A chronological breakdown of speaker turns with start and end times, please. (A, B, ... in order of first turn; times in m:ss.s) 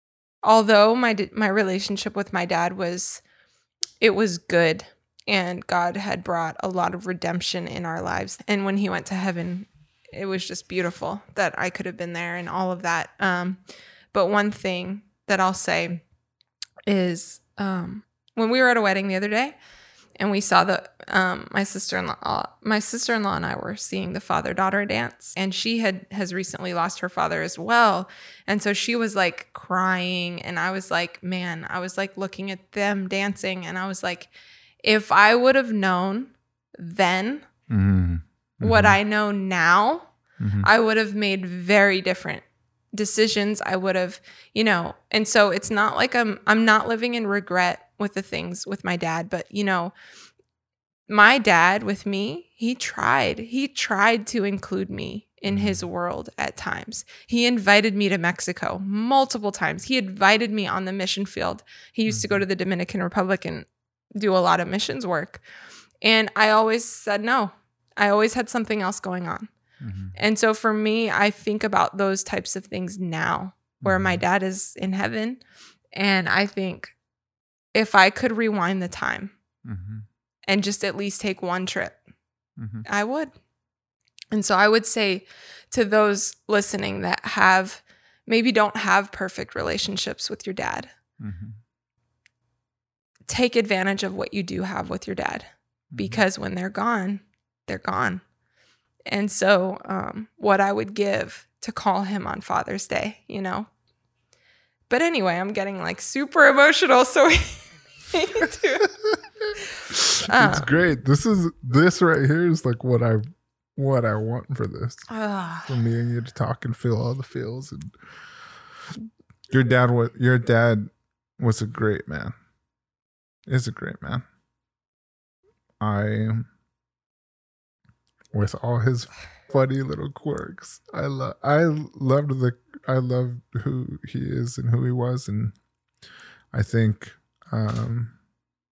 0:00.4-0:03.2 A
0:04.0-0:13.6 A
0:14.1-0:16.0 A
0:16.9-0:19.6 A
0:20.2-0:37.5 A
0:37.7-0:39.0 B
0:38.6-0:49.9 A
0:40.4-0:40.7 B
0:51.1-1:05.4 A
0:55.5-0:55.8 B
1:02.1-1:02.4 B
1:06.0-1:09.5 A
1:09.8-1:10.2 B
1:10.2-1:16.9 A
1:13.8-1:14.2 B
1:17.7-1:19.3 A
1:19.6-1:20.1 B
1:20.5-1:22.0 A
1:22.6-1:22.8 B
1:22.8-1:23.3 A
1:24.3-1:30.9 A
1:31.2-1:31.6 B
1:33.3-1:38.2 A
1:35.9-1:36.2 B
1:39.0-1:43.7 A
1:44.9-1:48.9 A
1:49.9-1:53.2 B
1:50.2-1:50.7 A
1:53.8-1:55.1 B
1:55.1-1:55.7 A
1:55.6-1:57.9 B
1:59.5-2:02.3 B
2:03.5-2:04.2 B
2:05.8-2:06.5 B
2:08.3-2:15.5 B
2:16.5-2:18.2 B